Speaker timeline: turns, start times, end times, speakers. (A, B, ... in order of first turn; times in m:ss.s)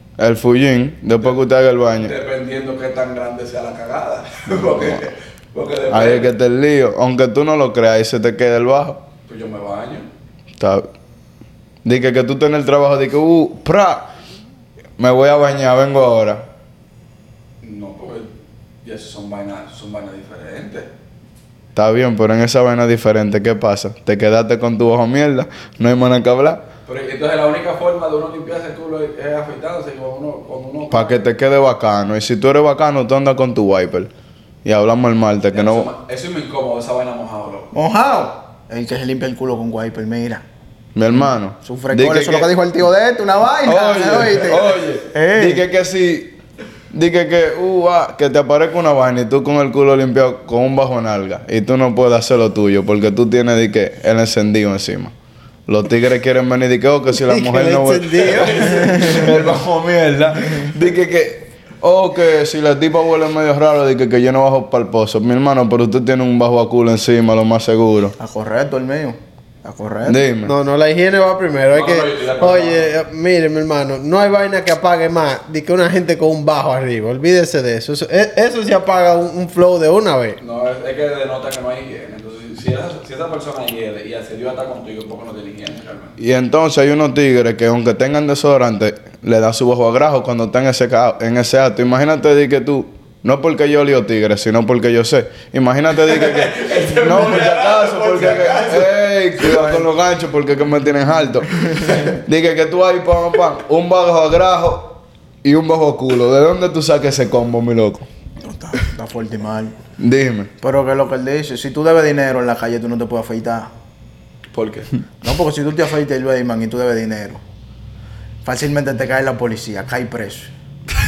0:00.2-0:02.1 A
0:02.0-0:06.4 B
0:05.9-0:09.0 A
0:09.3-0:10.1 B
0:10.6-0:10.9 A
0:11.8-0:14.1 A
0:15.0-0:16.5 A
0:17.6-0:18.3 B
0:18.8-0:20.9 B
0:21.8-0:26.6 A
0:26.8-0:31.3 B
0:30.9-0:34.1 A
0:34.6-0:35.9 A
0:35.5-0:37.7 B
0:37.7-0:40.4 C
0:41.0-0:42.5 A
0:41.6-0:45.6 C
0:43.7-0:46.3 A
0:46.9-0:55.1 A
0:55.7-1:08.2 A
0:57.1-0:58.9 D
0:58.3-0:59.3 B
0:58.6-0:59.2 C
1:08.2-1:10.2 C
1:10.0-1:10.5 A
1:10.4-1:20.4 D
1:11.7-1:13.0 B
1:20.4-1:26.2 B
1:26.2-1:41.5 A
1:36.1-1:39.9 B
1:41.7-1:42.2 B
1:42.2-1:48.1 A
1:48.4-1:49.8 C
1:50.0-1:50.5 A
1:50.6-1:53.7 C
1:54.5-1:54.9 B
1:55.2-1:57.4 C
1:58.4-2:00.5 C